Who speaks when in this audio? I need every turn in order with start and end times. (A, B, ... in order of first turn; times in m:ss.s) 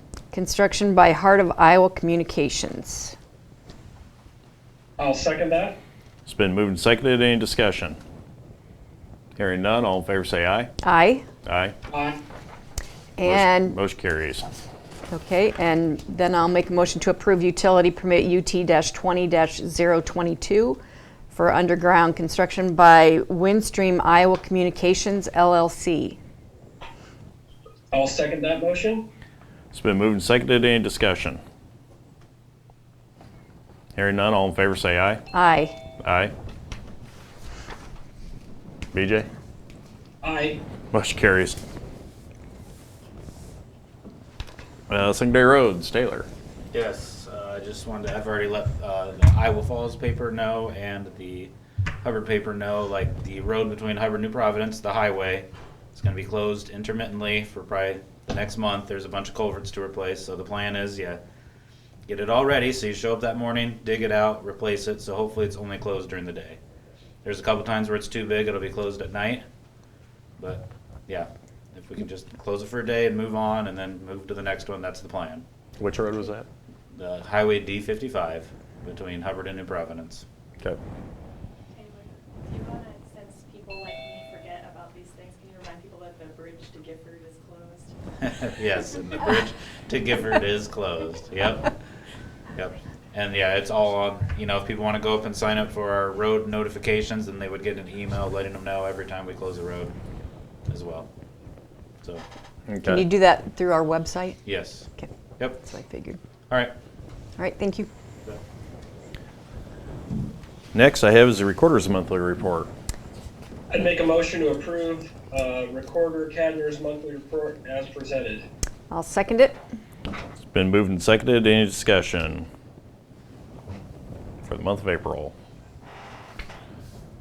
0:00.3-0:03.2 A
0:05.0-0:05.8 B
0:06.3-0:08.0 C
0:09.4-0:10.7 C
0:10.8-0:11.2 A
0:11.4-0:11.8 C
0:11.9-0:12.2 B
0:13.2-0:13.8 A
0:13.2-0:14.5 C
0:15.1-0:20.8 A
0:21.3-0:26.2 A
0:27.9-0:29.1 B
0:29.7-0:31.4 C
0:34.0-0:35.2 C
0:35.3-0:35.8 A
0:36.0-0:36.3 C
0:38.9-0:39.3 C
0:40.2-0:40.6 B
0:40.9-0:41.6 C
0:44.9-0:46.3 C
0:46.7-1:01.2 D
1:02.1-1:06.6 D
1:07.2-1:09.4 D
1:10.4-1:15.4 D
1:15.8-1:16.5 C
1:16.9-1:20.2 D
1:21.7-1:27.9 E
1:28.2-1:31.8 D
1:32.6-1:40.0 D
1:40.7-1:41.1 D
1:42.7-1:43.0 C
1:42.8-1:44.4 A
1:44.4-1:45.6 D
1:45.0-1:46.2 A
1:46.5-1:46.8 D
1:47.4-1:47.9 A
1:50.7-1:52.7 C
1:53.7-1:58.5 B
1:58.9-1:59.6 A
2:00.4-2:02.5 C
2:04.4-2:05.4 C